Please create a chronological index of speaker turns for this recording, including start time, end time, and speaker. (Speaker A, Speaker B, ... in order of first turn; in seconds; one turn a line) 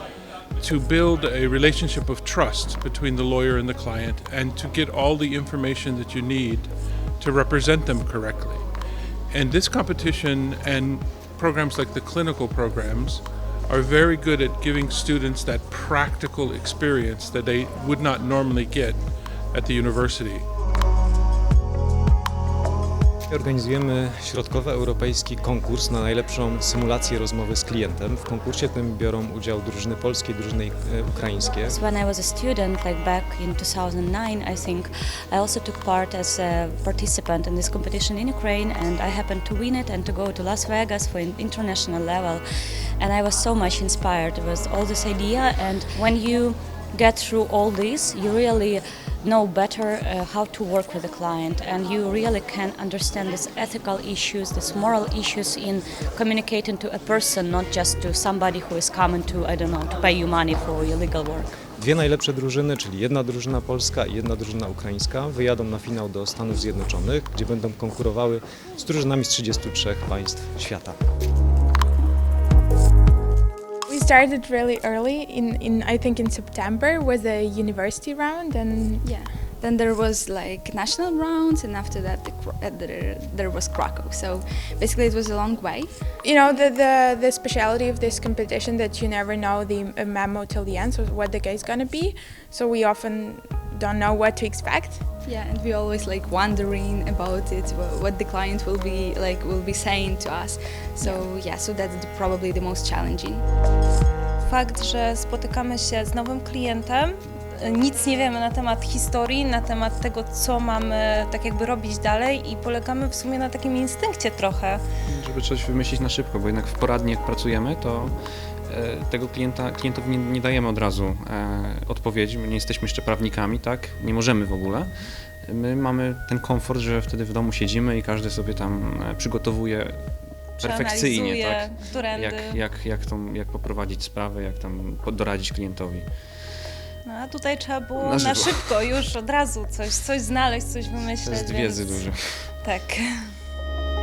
Speaker A: 0.6-8.7
Speaker A: 9.3-19.0
Speaker A: 19.5-20.4
Speaker B: 23.3-31.8
Speaker C: 31.7-42.4
Speaker C: 43.0-61.5
Speaker B: 61.8-71.0
Speaker D: 73.9-79.0
Speaker E: 79.0-85.9
Speaker D: 86.2-95.0
Speaker E: 95.2-103.4
Speaker F: 104.5-114.8
Speaker G: 115.1-124.9
Speaker G: 125.4-130.0
Speaker G: 130.6-136.1
Speaker F: 130.6-132.6
Speaker F: 137.1-142.1
Speaker G: 138.0-139.0
Speaker G: 141.1-142.5
Speaker F: 142.6-143.0